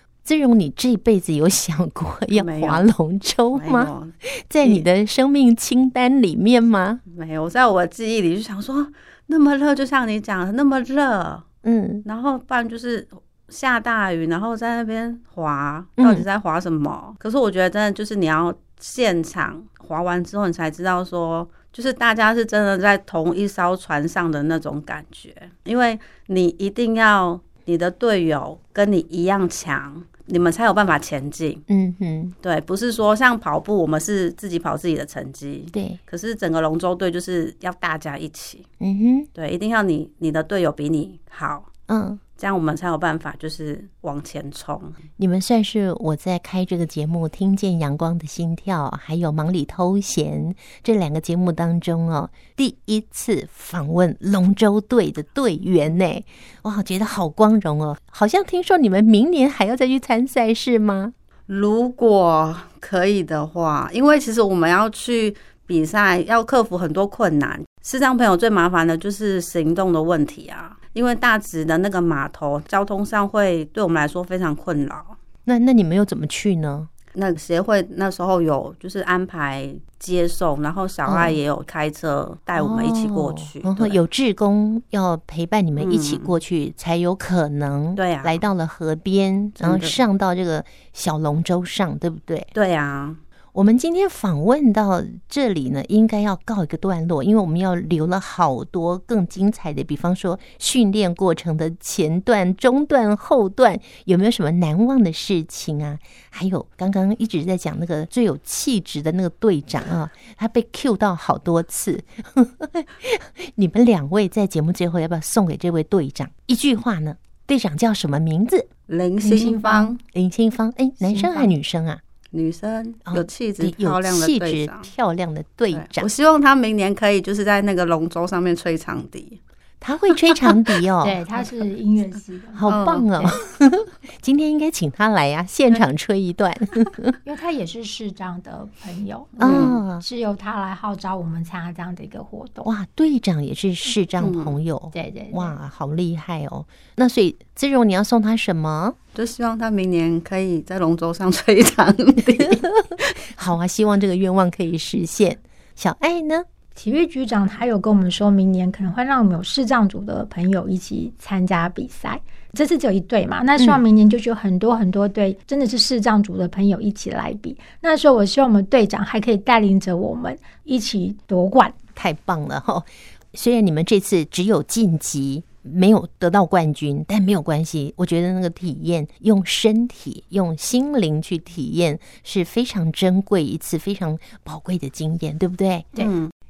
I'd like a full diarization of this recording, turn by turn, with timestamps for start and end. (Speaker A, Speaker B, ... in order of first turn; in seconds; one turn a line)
Speaker A: 0.2-7.0
Speaker B: 2.3-2.9
Speaker B: 3.5-4.9
Speaker B: 7.1-11.4
Speaker A: 11.6-12.1
Speaker B: 12.0-31.6
Speaker A: 16.0-16.2
Speaker A: 31.7-32.4
Speaker B: 32.4-38.7
Speaker A: 35.7-36.0
Speaker A: 38.8-39.3
Speaker B: 39.4-41.7
Speaker A: 41.9-42.2
Speaker B: 42.4-45.0
Speaker A: 45.2-61.1
Speaker B: 61.5-75.2
Speaker A: 75.5-76.9
Speaker B: 77.2-84.0
Speaker A: 81.1-81.4
Speaker A: 82.6-92.5
Speaker B: 85.8-86.3
Speaker B: 88.0-88.4
Speaker B: 89.6-90.0
Speaker B: 92.5-93.2
Speaker A: 93.5-118.7
Speaker B: 118.9-120.0
Speaker C: 119.2-120.0
Speaker A: 120.1-122.0
Speaker C: 121.0-121.5
Speaker B: 122.3-124.9
Speaker A: 123.1-126.1
Speaker B: 125.7-129.4
Speaker A: 129.8-131.2
Speaker B: 130.4-130.7
Speaker C: 131.0-133.4
Speaker A: 132.6-137.2
Speaker B: 132.7-133.1
Speaker C: 137.2-142.7
Speaker B: 139.4-139.8
Speaker A: 139.4-140.1
Speaker A: 142.7-149.0
Speaker B: 144.2-144.6
Speaker C: 144.9-145.6
Speaker B: 149.2-153.1
Speaker A: 153.4-156.4
Speaker C: 156.8-171.8
Speaker A: 171.9-185.9
Speaker B: 186.0-186.3